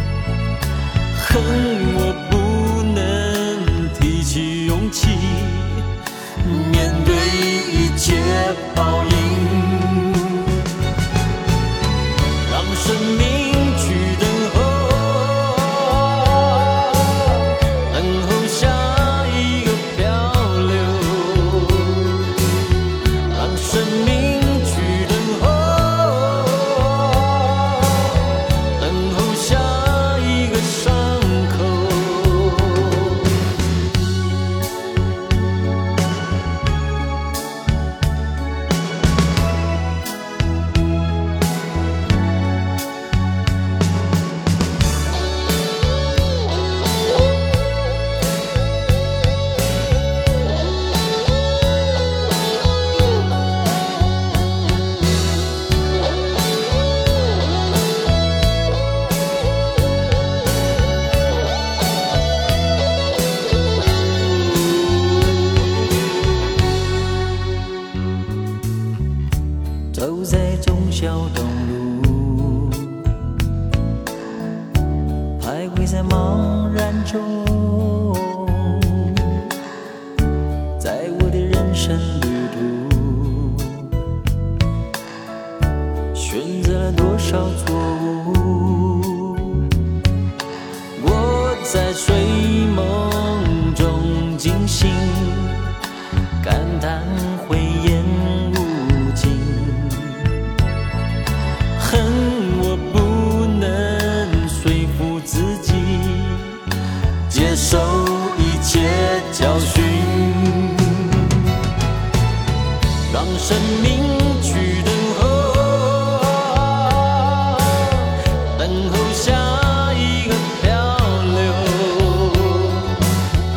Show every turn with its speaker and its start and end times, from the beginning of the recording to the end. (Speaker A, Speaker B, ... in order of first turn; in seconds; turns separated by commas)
Speaker A: 1.1-10.6, Speaker A: 12.4-22.2, Speaker A: 23.3-33.3, Speaker A: 69.9-73.0, Speaker A: 75.4-79.5, Speaker A: 80.8-83.9, Speaker A: 86.1-89.6, Speaker A: 91.0-95.7, Speaker A: 96.4-100.4, Speaker A: 101.8-106.6, Speaker A: 107.3-111.4, Speaker A: 113.1-123.0